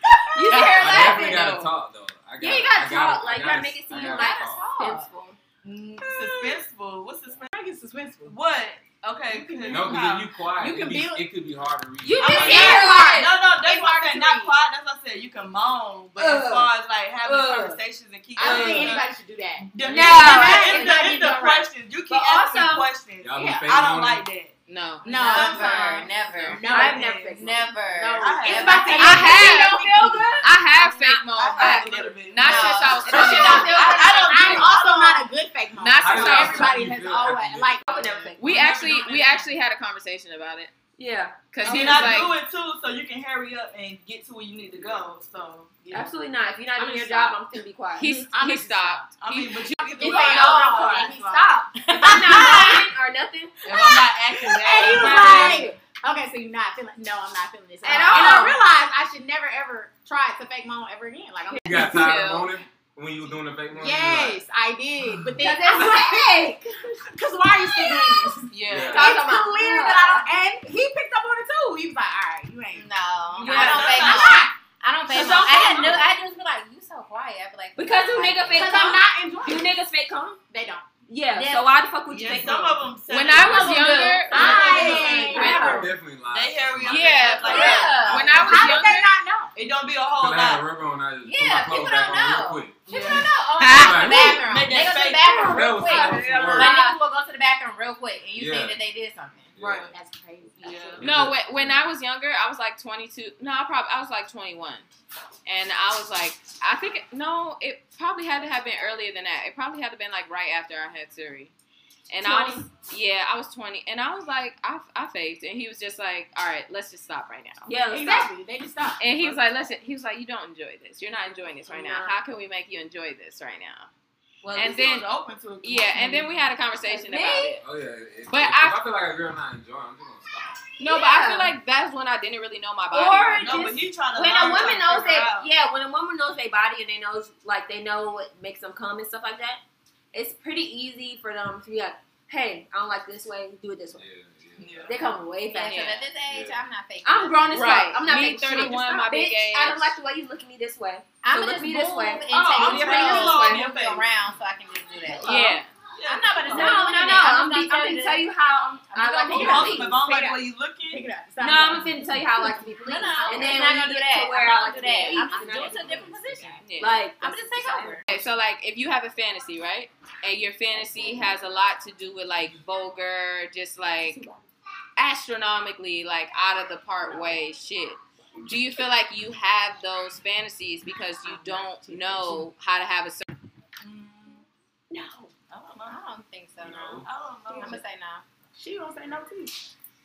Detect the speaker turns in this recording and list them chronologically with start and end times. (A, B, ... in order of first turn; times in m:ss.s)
0:00.3-0:01.4 A
0:00.3-0:01.5 B
0:00.5-0:01.7 C
0:00.7-0:04.7 D
0:02.4-0:05.4 A
0:04.0-0:05.1 B
0:05.6-0:07.5 E
0:06.0-0:06.5 F
0:07.5-0:08.4 F
0:08.2-0:10.3 E
0:09.3-0:11.3 F
0:09.7-0:13.0 D
0:12.0-0:13.4 A
0:12.2-0:29.2 E
0:12.5-0:13.2 B
0:12.6-0:14.6 F
0:16.2-0:17.8 A
0:18.4-0:21.6 F
0:18.4-0:19.0 A
0:19.8-0:21.1 A
0:22.1-0:22.9 A
0:23.2-0:24.3 D
0:23.4-0:23.7 F
0:24.7-0:26.7 C
0:25.0-0:27.1 F
0:25.4-0:26.0 B
0:26.6-0:27.7 A
0:27.3-0:30.2 B
0:27.9-0:30.5 F
0:28.5-0:34.7 C
0:28.6-0:29.6 A
0:30.6-0:35.2 E
0:32.4-0:34.6 B
0:33.0-0:38.3 F
0:33.0-0:34.2 A
0:35.8-0:36.8 C
0:36.0-0:37.8 D
0:37.8-0:38.8 A
0:38.4-0:39.4 E
0:38.4-0:40.7 C
0:41.0-0:42.1 A
0:41.5-0:42.4 C
0:41.6-0:46.2 E
0:44.7-0:45.0 D
0:45.9-0:48.1 A
0:46.8-0:47.4 B
0:48.0-0:49.1 F
0:48.0-0:49.9 C
0:49.2-0:51.6 E
0:50.0-0:52.8 B
0:50.0-0:52.9 F
0:51.9-0:54.0 A
0:53.6-0:55.6 E
0:54.4-1:02.2 F
0:54.6-0:55.8 A
0:57.8-0:58.6 A
0:57.9-0:58.5 B
1:01.6-1:04.4 D
1:01.9-1:02.5 C
1:03.7-1:12.9 F
1:05.4-1:07.0 A
1:08.5-1:09.0 C
1:08.6-1:09.1 D
1:08.9-1:09.5 B
1:08.9-1:10.2 A
1:12.7-1:18.8 B
1:13.4-1:14.4 A
1:13.4-1:14.5 E
1:13.4-1:14.5 F
1:15.1-1:16.0 F
1:15.1-1:16.0 A
1:17.8-1:20.4 A
1:18.5-1:19.7 F
1:20.5-1:21.7 F
1:21.1-1:22.8 A
1:22.1-1:25.4 E
1:23.1-1:25.9 C
1:23.4-1:25.8 F
1:23.5-1:25.9 A
1:24.1-1:25.7 B
1:25.4-1:28.7 D
1:26.2-1:28.2 E
1:26.8-1:29.1 C
1:27.4-1:28.5 B
1:27.5-1:28.1 A
1:28.4-1:29.5 F
1:29.5-1:30.6 E
1:30.2-1:34.6 D
1:31.2-1:39.5 B
1:32.9-1:33.3 E
1:33.6-1:34.1 C
1:34.3-1:35.8 E
1:35.4-1:36.7 D
1:35.8-1:37.0 A
1:38.4-1:38.8 D
1:39.6-1:39.9 D
1:39.6-1:39.9 E
1:39.9-1:41.0 F
1:40.6-1:41.0 E
1:41.0-1:41.9 D
1:41.0-1:44.8 C
1:45.4-1:51.5 C
1:52.1-1:57.7 C
1:52.2-1:52.6 A
1:57.7-1:58.3 A
1:57.9-1:59.0 F
1:59.0-2:03.9 C
1:59.1-1:59.4 D
2:01.7-2:02.2 A
2:04.4-2:06.5 E
2:04.5-2:05.1 C
2:05.6-2:07.6 C
2:06.8-2:07.6 A
2:07.6-2:10.6 D
2:08.3-2:08.8 C
2:10.8-2:13.6 C
2:10.8-2:11.5 A
2:12.9-2:19.6 A
2:13.4-2:15.5 E
2:20.1-2:24.0 A
2:23.9-2:25.0 D
2:24.6-2:25.1 E
2:24.9-2:26.0 A
2:25.5-2:28.8 B
2:25.7-2:26.0 C
2:26.2-2:26.6 D
2:27.0-2:33.5 A
2:27.5-2:29.9 C
2:31.2-2:38.3 B
2:32.3-2:34.1 E
2:35.1-2:35.4 A
2:35.2-2:35.7 C
2:35.9-2:36.8 E
2:36.5-2:39.9 A
2:38.9-2:40.4 B
2:39.3-2:41.0 E
2:39.3-2:39.8 F
2:40.9-2:42.2 F
2:41.4-2:46.1 A
2:42.4-2:46.6 B
2:42.9-2:43.6 F
2:45.0-2:46.6 F
2:46.6-2:47.0 C
2:46.8-2:48.2 A
2:47.2-2:48.1 B
2:48.1-2:54.2 C
2:54.1-2:54.4 A
2:55.0-3:03.3 C
3:03.8-3:04.4 E
3:04.9-3:05.3 B
3:05.5-3:06.0 E
3:05.8-3:08.2 B
3:06.6-3:07.0 D
3:07.0-3:07.8 E
3:08.5-3:09.6 F